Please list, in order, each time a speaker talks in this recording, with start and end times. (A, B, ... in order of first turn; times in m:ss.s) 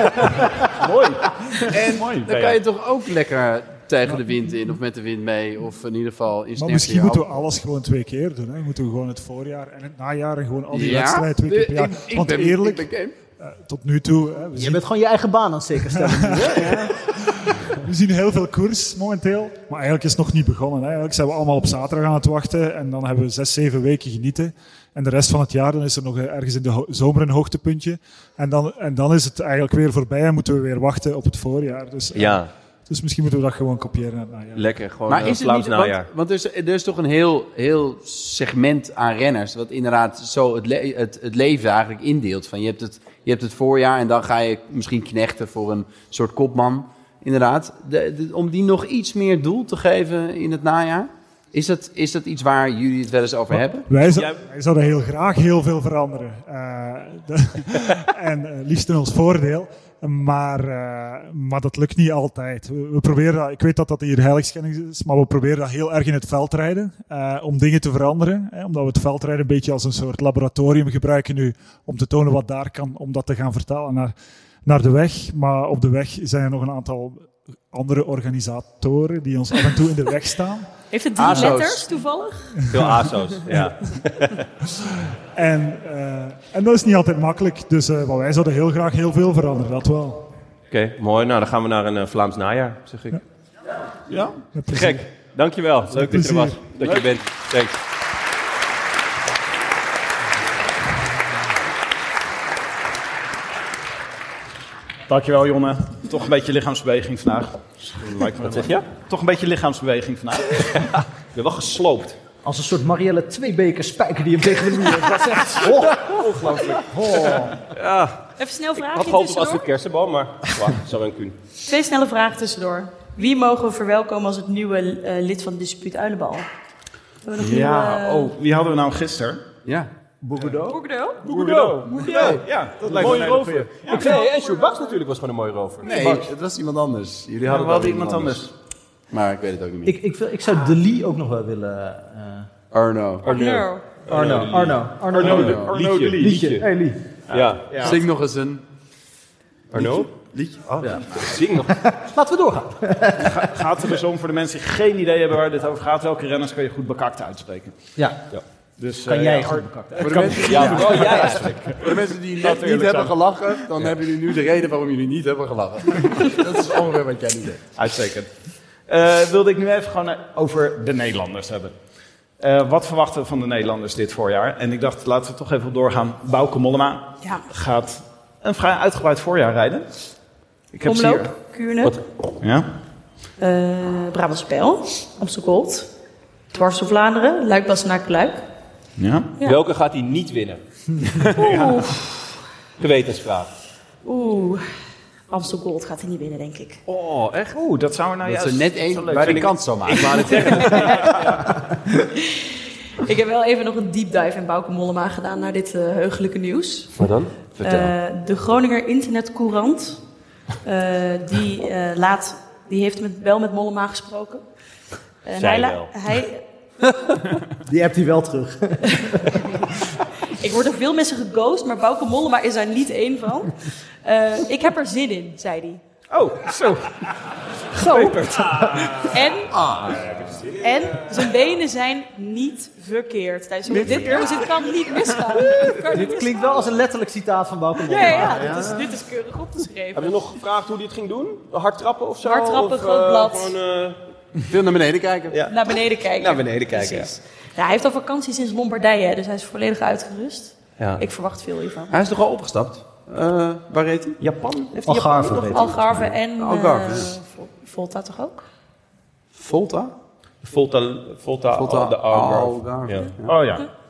0:00.7-0:02.4 A
0:01.7-0:07.3 B
0:06.6-0:12.9 C
0:10.7-0:13.1 B
0:13.4-0:14.8 C
0:14.5-0:16.9 D
0:15.9-0:34.7 C
0:32.1-0:32.5 E
0:34.6-0:36.1 E
0:35.1-0:53.9 B
0:53.9-1:14.1 C
0:54.1-0:54.4 E
1:14.6-1:20.7 C
1:20.9-1:22.6 F
1:21.2-1:21.9 B
1:22.7-1:22.9 C
1:22.7-1:24.4 E
1:25.4-1:30.3 C
1:30.7-1:33.2 E
1:34.1-1:34.4 A
1:34.5-1:35.0 C
1:34.7-1:37.8 E
1:35.9-1:36.6 C
1:45.1-1:50.8 A
1:48.4-1:48.9 E
1:50.7-1:52.2 E
1:52.4-1:57.6 D
1:56.1-1:57.4 A
1:57.3-1:58.2 E
1:58.4-1:59.7 F
1:58.8-2:01.4 E
2:01.6-2:06.5 F
2:07.2-2:08.3 F
2:07.4-2:09.5 A
2:09.6-2:09.9 B
2:10.3-2:14.1 A
2:10.7-2:11.2 F
2:11.2-2:16.0 E
2:12.0-2:13.3 B
2:13.9-2:14.8 F
2:15.8-2:18.5 B
2:15.8-2:16.3 A
2:17.5-2:18.5 A
2:19.1-2:20.0 B
2:19.8-2:22.5 D
2:22.7-2:23.3 B
2:23.2-2:23.8 F
2:23.3-2:26.7 E
2:24.1-2:27.0 D
2:25.1-2:26.4 A
2:25.3-2:25.7 B
2:27.3-2:28.0 A
2:27.3-2:28.0 E
2:27.8-2:28.6 B
2:29.7-2:30.1 E
2:29.7-2:31.0 B
2:30.8-2:31.8 E
2:31.7-2:33.6 D
2:33.2-2:37.8 A
2:38.0-2:38.2 D
2:38.8-2:43.2 A
2:39.0-2:41.2 D
2:40.0-2:47.6 B
2:40.4-2:41.7 E
2:47.8-2:48.3 A
2:48.9-2:51.8 A
2:52.4-2:59.9 A
3:00.7-3:01.3 A
3:00.8-3:02.0 F
3:02.4-3:02.7 A
3:03.4-3:05.9 F
3:06.5-3:08.4 F
3:09.0-3:09.3 A
3:09.4-3:10.6 E
3:11.1-3:11.8 A
3:11.4-3:12.0 F
3:12.8-3:13.5 E
3:14.0-3:14.6 F
3:15.3-3:16.8 F
3:16.9-3:17.6 E
3:17.6-3:21.2 A
3:18.2-3:20.4 B
3:19.2-3:21.5 E
3:20.5-3:21.1 F
3:23.0-3:27.0 F
3:27.0-3:27.9 E
3:27.6-3:30.0 F
3:30.6-3:34.4 F
3:35.2-3:36.4 F
3:35.4-3:35.9 E
3:37.5-3:39.4 D
3:39.0-3:39.3 F
3:40.2-3:45.8 F
3:46.1-3:47.0 A
3:47.8-3:49.2 E
3:47.8-3:48.2 F
3:47.8-3:48.2 A
3:49.0-3:49.6 F
3:49.5-3:50.0 B
3:49.8-3:51.0 E
3:50.6-3:56.4 F
3:53.7-3:54.4 A
3:55.3-3:55.8 E
3:55.9-3:59.0 D
3:57.8-4:00.2 F
4:00.0-4:04.0 E
4:02.2-4:03.5 F
4:04.5-4:05.4 B
4:05.3-4:07.1 E
4:05.5-4:12.0 F
4:10.8-4:11.0 E
4:11.9-4:14.2 B
4:14.2-4:16.0 E
4:14.8-4:16.0 D
4:15.5-4:18.5 F
4:16.0-4:17.1 B
4:19.3-4:19.9 B
4:20.4-4:23.1 E
4:21.5-4:23.5 B
4:23.3-4:23.7 A